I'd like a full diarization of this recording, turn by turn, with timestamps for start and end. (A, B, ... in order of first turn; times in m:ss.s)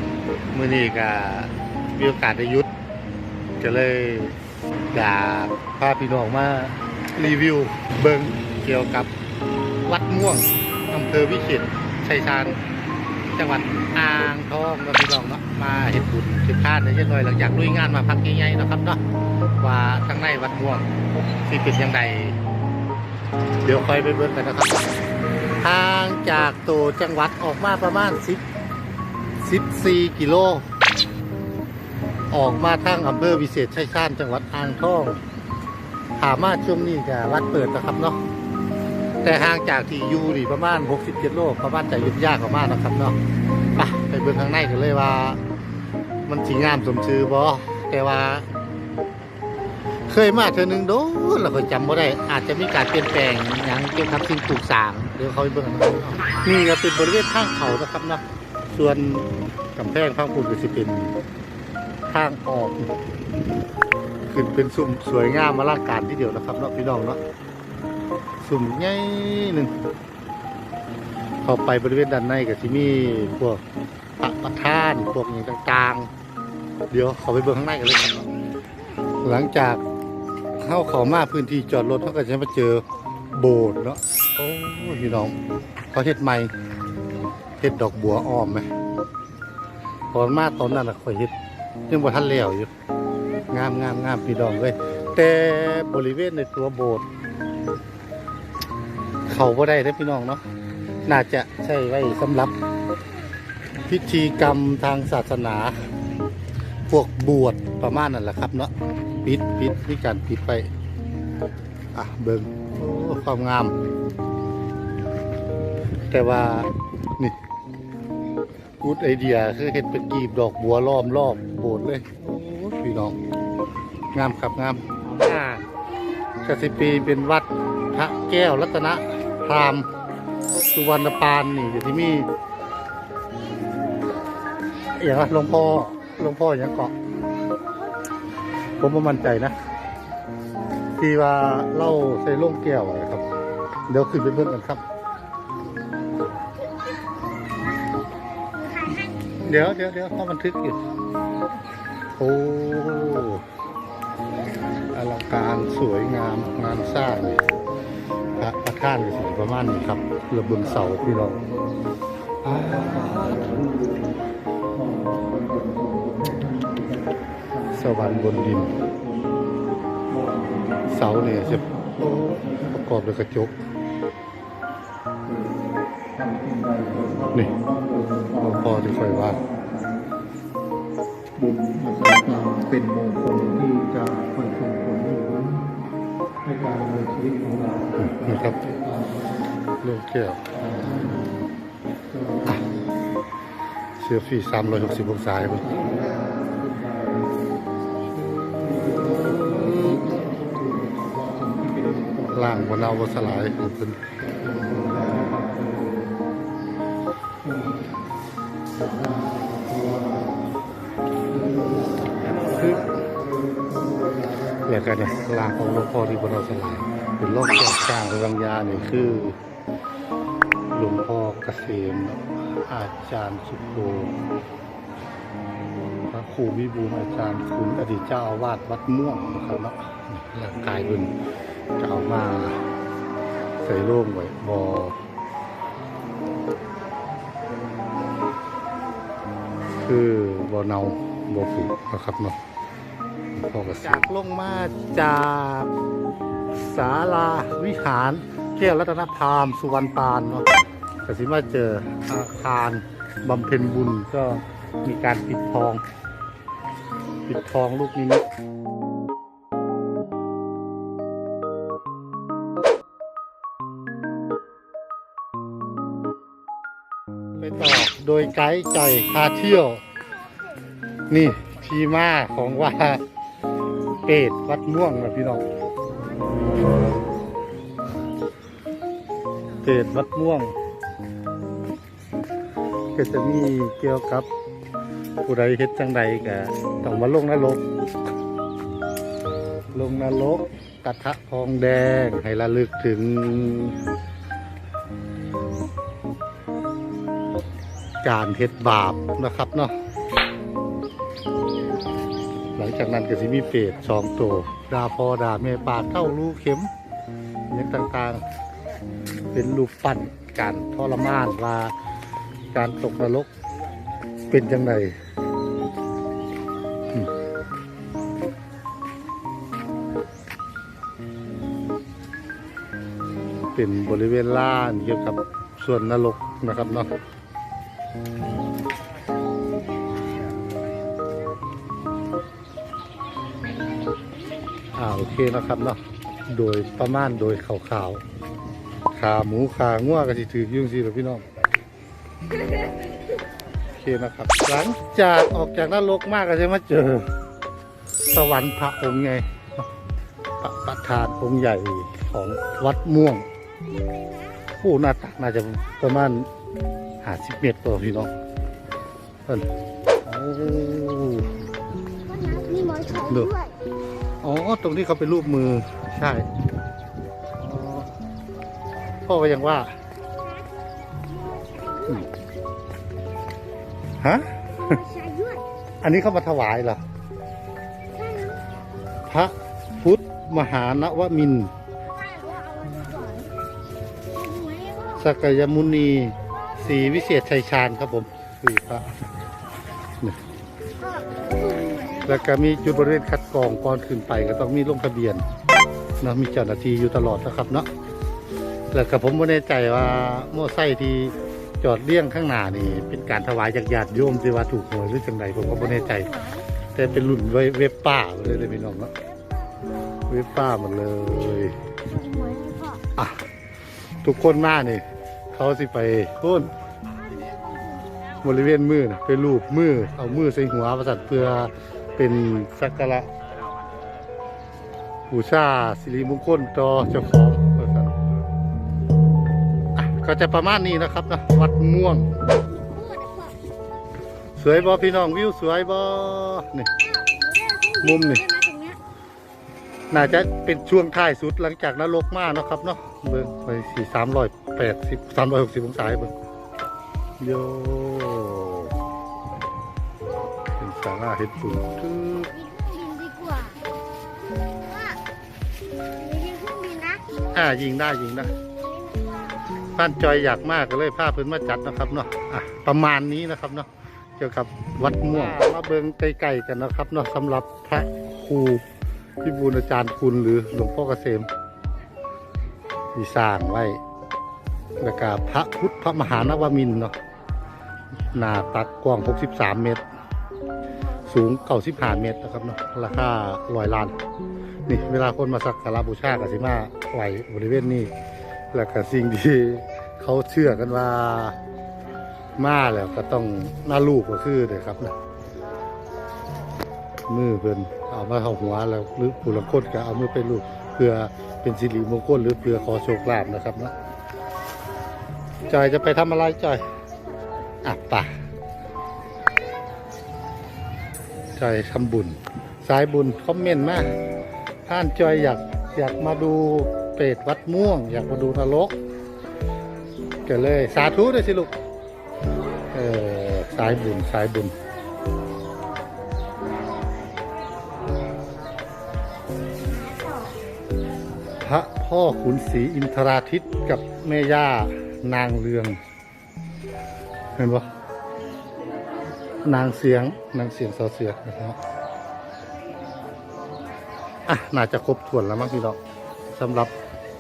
0:00.5-0:02.7 A
0:03.6-0:04.4 A
0:04.9-0:09.1 A
0:09.8-0:12.6 A
0:13.2-0:19.0 A
0:19.6-0:20.9 A
0:21.4-0:22.4 A
0:23.6-0:24.8 A
0:25.6-0:28.4 A
0:29.4-0:30.7 A
0:32.3-0:35.2 A
0:36.2-0:38.2 A
0:39.2-0:43.2 A
0:43.7-0:45.4 A
0:46.3-0:48.5 A
0:50.1-1:01.1 A
1:02.1-1:02.9 A
1:04.3-1:07.2 A
1:08.4-1:09.7 A
1:11.4-1:13.6 A
1:14.2-1:16.1 A
1:16.9-1:18.3 A
1:19.2-1:19.8 A
1:20.6-1:25.3 A
1:25.9-1:26.5 A
1:27.6-1:28.7 A
1:30.1-1:31.3 A
1:31.9-1:32.7 A
1:33.5-1:37.0 A
1:39.3-1:40.4 A
1:41.1-1:42.5 A
1:43.8-1:45.8 A
1:46.9-1:48.7 A
1:49.2-1:50.7 A
1:51.9-1:53.7 A
1:56.1-1:57.4 A
1:58.8-2:03.2 A
2:04.1-2:05.6 A
2:06.4-2:09.9 A
2:10.6-2:12.3 A
2:14.8-2:16.9 A
2:18.8-2:19.6 A
2:21.0-2:23.2 A
2:23.9-2:24.8 A
2:28.6-2:29.2 B
2:29.4-2:30.8 A
2:32.2-2:33.4 A
2:34.9-2:37.4 A
2:38.4-2:41.4 A
2:42.4-2:44.1 C
2:44.7-2:49.5 C
2:47.8-2:48.7 A
2:50.1-2:52.7 C
2:50.9-2:53.5 A
2:55.2-2:55.6 C
2:56.2-3:00.1 C
2:58.4-2:59.4 A
3:01.4-3:05.7 C
3:06.4-3:09.5 C
3:08.0-3:08.6 A
3:09.8-3:10.4 A
3:10.5-3:11.3 C
3:12.1-3:12.6 C
3:14.0-3:15.9 A
3:15.6-3:17.4 C
3:18.2-3:23.1 C
3:19.4-3:19.9 A
3:22.3-3:24.0 A
3:24.2-3:26.3 C
3:27.4-3:27.8 C
3:28.8-3:30.3 C
3:31.2-3:34.7 C
3:32.5-3:32.8 A
3:34.7-3:39.4 A
3:40.7-3:44.2 A
3:46.1-3:51.1 A
3:51.8-3:52.6 A
3:53.6-3:55.0 A
3:59.8-4:02.4 A
4:03.4-4:05.7 A
4:06.5-4:10.5 A
4:11.0-4:15.8 A
4:17.3-4:18.2 A
4:27.4-4:29.8 A
4:31.1-4:33.0 A
4:34.0-4:35.4 A
4:36.0-4:36.4 B
4:39.6-4:40.5 A
4:43.0-4:44.3 A
4:45.2-4:47.6 A
4:49.7-4:53.8 A
4:58.0-4:59.7 A
5:02.6-5:06.7 A
5:07.5-5:08.2 A
5:09.3-5:11.7 A
5:12.5-5:13.3 A
5:14.3-5:14.9 A
5:23.5-5:26.9 A
5:34.7-5:38.0 A
5:38.9-5:41.2 A
5:43.7-5:47.1 A
5:48.1-5:49.7 A
5:50.4-5:53.3 A
5:54.0-5:54.3 B
5:54.6-5:56.3 A
5:57.0-5:58.1 A
6:00.0-6:01.3 A
6:02.0-6:03.6 B
6:04.2-6:06.2 A
6:07.4-6:07.9 A
6:09.0-6:09.7 A
6:10.2-6:10.5 B
6:11.0-6:12.1 B
6:14.0-6:14.5 A
6:14.6-6:15.4 B
6:15.8-6:16.8 A
6:17.8-6:18.4 B
6:19.1-6:21.5 A
6:21.9-6:23.3 B
6:24.1-6:25.0 B
6:25.0-6:28.9 A
6:30.8-6:32.2 B
6:32.0-6:35.2 A
6:36.0-6:37.7 A
6:38.7-6:46.1 A
6:45.6-6:46.4 B
6:46.7-6:48.9 A
6:50.1-6:51.6 A
6:51.9-6:52.8 B
6:54.0-6:56.5 A
6:56.9-6:57.9 B
6:58.2-7:03.1 A
7:05.1-7:07.9 A
7:09.8-7:12.1 A
7:12.4-7:13.3 B
7:14.4-7:16.7 A
7:16.8-7:18.8 B
7:17.8-7:18.2 A
7:19.9-7:26.1 A
7:27.2-7:28.7 A
7:30.6-7:32.3 A
7:32.3-7:33.6 B
7:36.0-7:37.0 B
7:37.3-7:38.3 A
7:38.6-7:39.4 B
7:39.8-7:48.6 A
7:49.2-7:51.3 A
7:52.9-7:53.8 A
7:54.8-7:56.9 A
7:58.1-7:59.8 A
8:01.0-8:04.0 A
8:04.6-8:07.9 A
8:08.5-8:11.4 A
8:12.4-8:14.9 A
8:17.1-8:23.7 A
8:25.4-8:26.6 A
8:27.6-8:28.1 A
8:31.4-8:33.9 A
8:34.6-8:38.8 A
8:40.2-8:41.5 A
8:42.7-8:44.5 A
8:51.4-8:55.8 A
8:57.4-8:57.7 A
8:59.4-9:01.6 A
9:04.3-9:05.8 A
9:06.3-9:06.7 A